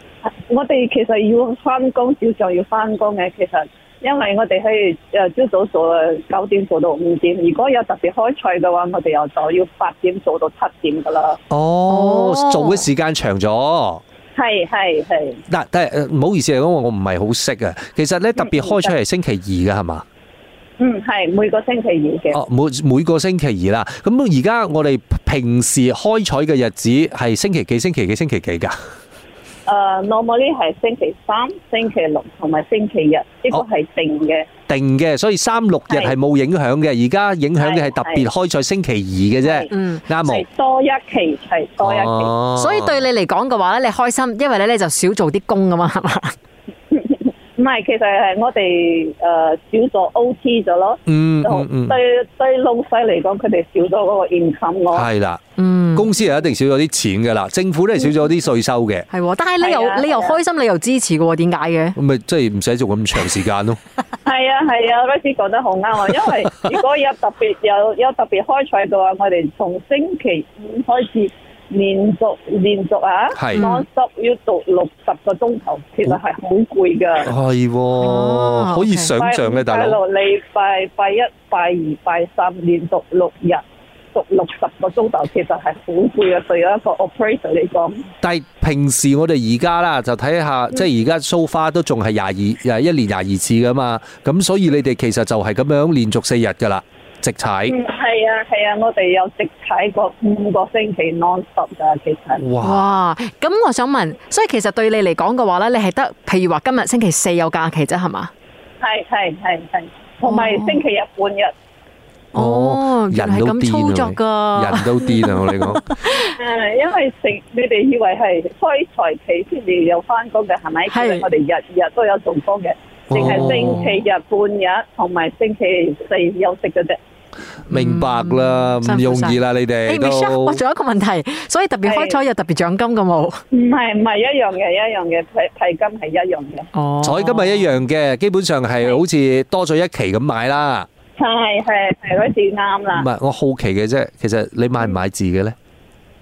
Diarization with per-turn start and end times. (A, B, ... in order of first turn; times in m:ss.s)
0:00.2-0:11.4 A
0:11.5-0:14.0 B
0:11.9-0:12.8 C
0:14.3-0:15.4 A
0:15.5-0:20.0 B
0:18.4-0:18.9 A
0:20.8-0:22.4 A
0:22.3-0:28.7 B
0:29.6-0:34.5 A
0:34.7-0:40.4 B
0:37.6-0:38.2 A
0:39.4-0:39.7 A
0:39.7-0:40.0 C
0:40.2-0:42.3 A
0:41.8-0:43.0 B
0:42.6-0:46.4 C
0:46.9-0:55.1 A
0:51.1-0:52.0 B
0:54.9-0:55.4 B
0:55.6-0:56.1 C
0:55.9-0:59.1 B
0:59.1-1:02.0 C
0:59.6-1:00.4 A
1:02.0-1:03.8 B
1:04.2-1:17.3 A
1:13.4-1:13.7 B
1:13.5-1:13.8 C
1:17.2-1:20.0 B
1:18.0-1:19.1 C
1:19.2-1:23.6 A
1:24.1-1:28.0 A
1:28.2-1:37.7 B
1:37.7-1:42.4 A
1:42.4-1:42.8 B
1:42.6-1:48.3 C
1:48.8-1:51.5 A
1:50.2-1:50.8 C
1:52.3-1:55.8 B
1:52.3-1:56.3 C
1:56.2-2:07.0 A
2:00.9-2:01.3 C
2:03.1-2:03.9 B
2:07.7-2:13.4 C
2:07.7-2:10.6 B
2:11.8-2:12.2 A
2:13.5-2:16.7 A
2:16.7-2:17.8 C
2:17.0-2:20.9 B
2:21.2-2:23.1 A
2:22.9-2:25.5 B